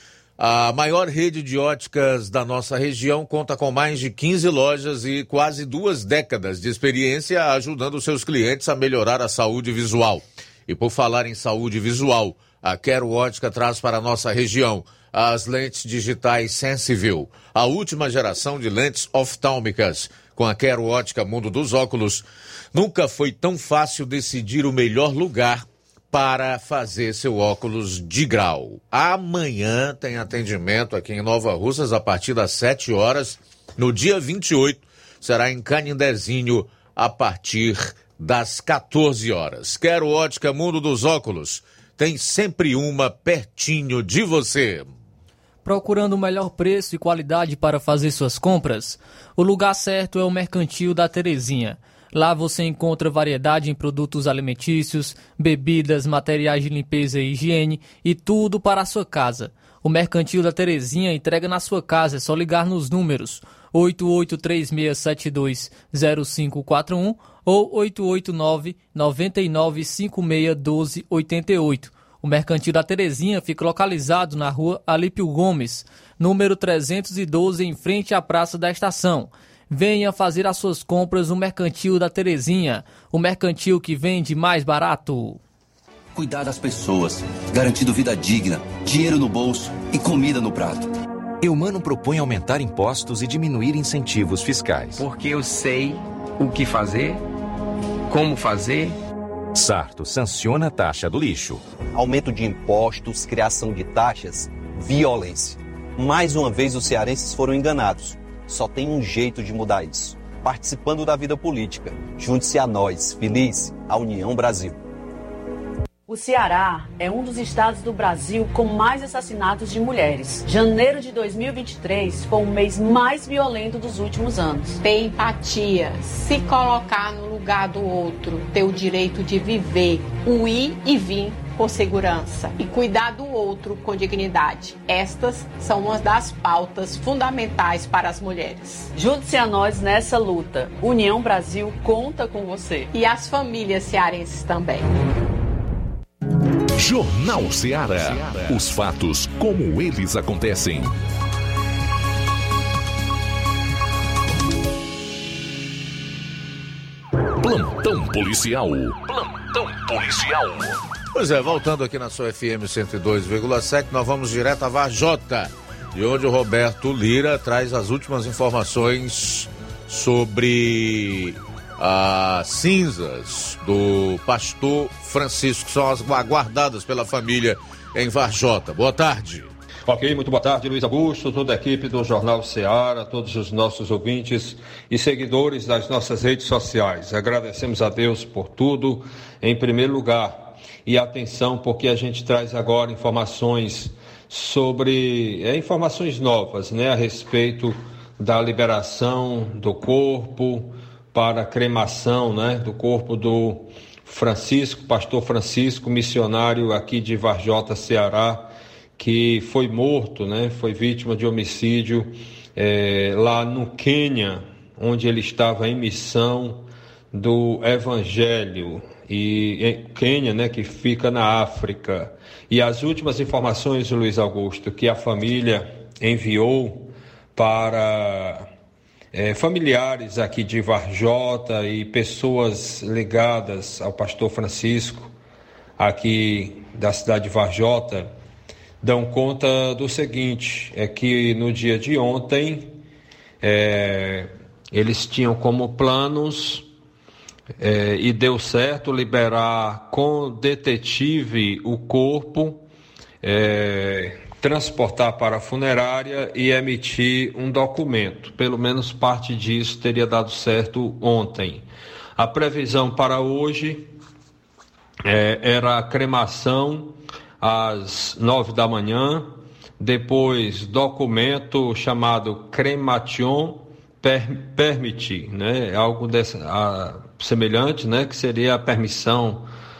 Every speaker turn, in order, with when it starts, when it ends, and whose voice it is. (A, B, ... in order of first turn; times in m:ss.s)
0:00.4-0:44.9 A
0:45.6-1:25.4 B
1:26.1-1:30.9 C
1:31.4-1:35.0 D
1:35.0-1:37.2 E
1:38.1-1:39.0 E
1:39.5-1:41.6 D
1:41.9-1:54.8 F
1:56.1-2:04.8 G
2:04.8-2:18.9 H
2:19.0-2:22.9 G
2:22.9-2:24.9 H
2:26.8-2:31.0 I
2:37.4-2:40.8 I
2:41.1-2:59.5 A
2:59.9-3:48.5 J
3:49.1-3:55.1 J
3:55.8-3:58.1 J
3:58.8-4:02.8 J
4:03.4-4:06.7 J
4:07.6-4:12.7 J
4:13.2-4:23.9 J
4:25.0-4:39.5 J